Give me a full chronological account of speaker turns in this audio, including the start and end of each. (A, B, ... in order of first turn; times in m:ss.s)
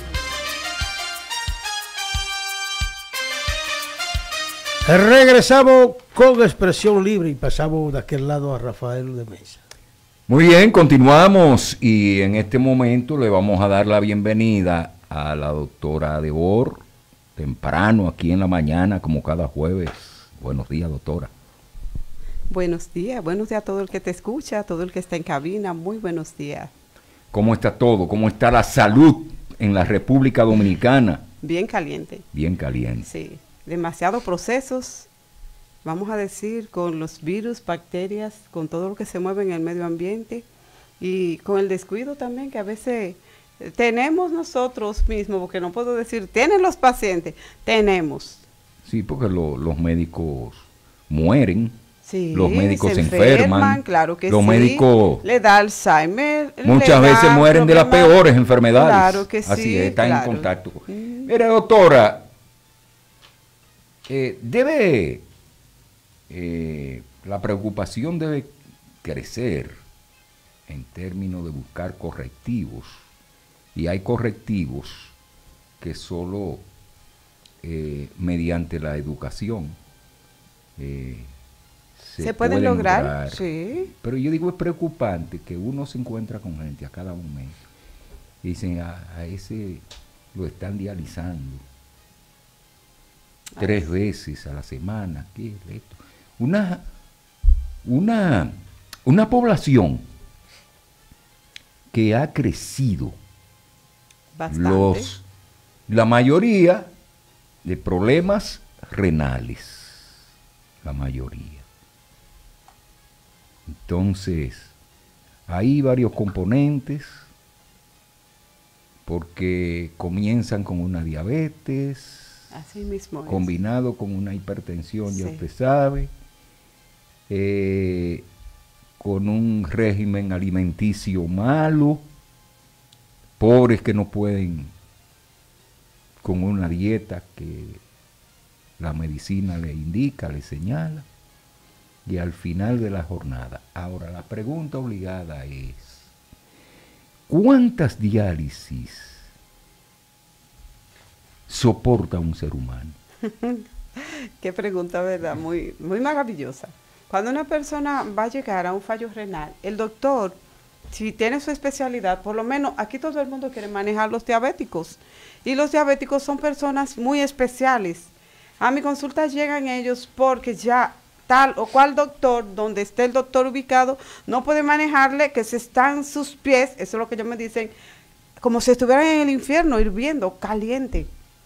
0:04.8-0:09.6 A
0:10.3-0:16.8 B
0:17.4-0:21.3 B
0:22.5-0:26.7 C
0:27.3-0:31.3 B
0:31.4-0:32.2 C
0:32.3-0:33.1 B
0:33.0-0:35.1 C
0:35.8-0:40.4 C
0:41.0-0:48.4 C
0:48.8-0:51.8 B
0:52.0-0:58.2 C
0:52.3-0:55.2 B
0:56.6-1:02.3 B
0:58.7-1:01.3 C
1:04.1-1:05.2 B
1:06.3-1:09.8 B
1:10.7-1:13.0 B
1:13.7-1:15.1 B
1:15.8-1:16.6 B
1:17.6-1:19.8 B
1:20.8-1:21.3 B
1:22.0-1:27.6 B
1:22.2-1:23.9 C
1:28.4-1:31.6 B
1:33.6-1:33.9 C
1:33.6-1:36.8 B
1:37.8-1:40.0 B
1:41.9-1:43.2 B
1:44.3-1:45.1 C
1:44.5-1:45.2 B
1:45.9-1:46.9 B
1:47.6-1:50.2 B
1:50.8-1:51.6 B
1:53.7-1:54.7 B
1:55.5-1:57.3 B
1:59.0-2:02.5 B
2:02.5-2:03.5 C
2:03.3-2:06.1 B
2:05.1-2:05.4 C
2:07.3-2:08.3 B
2:09.0-2:12.0 B
2:13.4-2:14.7 B
2:16.2-2:17.8 B
2:18.8-2:21.0 B
2:22.0-2:26.1 B
2:27.3-2:29.3 B
2:31.5-2:33.0 B
2:33.3-2:33.6 C
2:34.4-2:40.4 C
2:40.9-2:57.7 C
2:58.4-3:01.1 C